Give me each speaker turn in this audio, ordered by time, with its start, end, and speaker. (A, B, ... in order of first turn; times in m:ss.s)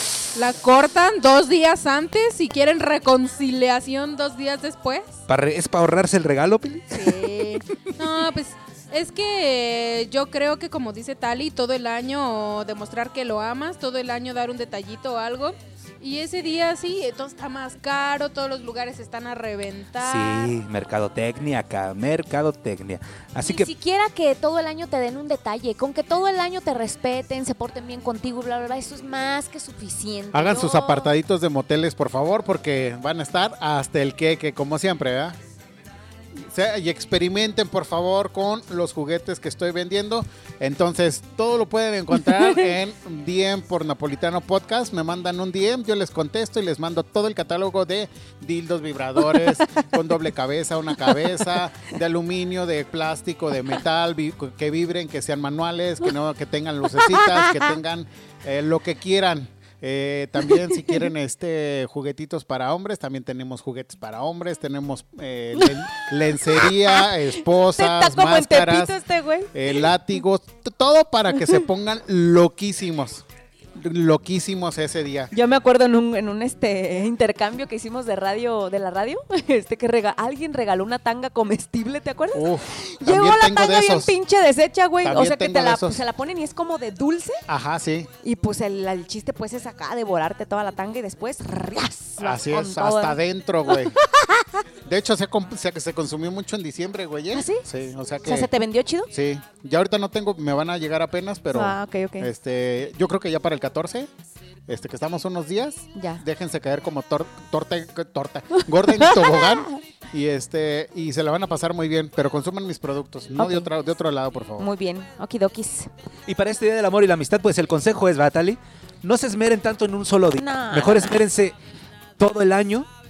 0:00.3-0:05.1 A
0:05.3-0:07.1 B
0:06.9-0:20.5 A
0:20.0-0:23.7 B
0:23.4-0:31.1 C
0:30.3-0:35.4 D
0:36.3-1:09.0 D
0:57.0-0:57.7 C
1:06.4-1:09.8 C
1:09.5-1:13.2 D
1:13.8-1:15.3 D
1:15.3-1:27.4 C
1:22.3-1:24.1 D
1:25.0-1:26.0 D
1:27.5-1:28.1 D
1:28.2-1:34.6 C
1:32.2-1:34.0 D
1:34.8-1:38.5 D
1:37.3-1:37.7 C
1:38.2-1:39.1 C
1:39.1-1:44.1 D
1:41.5-1:42.3 C
1:44.7-1:54.7 D
1:45.9-1:46.2 C
1:49.0-1:49.8 C
1:53.4-1:53.7 C
1:54.6-1:55.9 C
1:56.3-2:01.5 B
2:00.4-2:01.2 C
2:02.2-2:02.9 B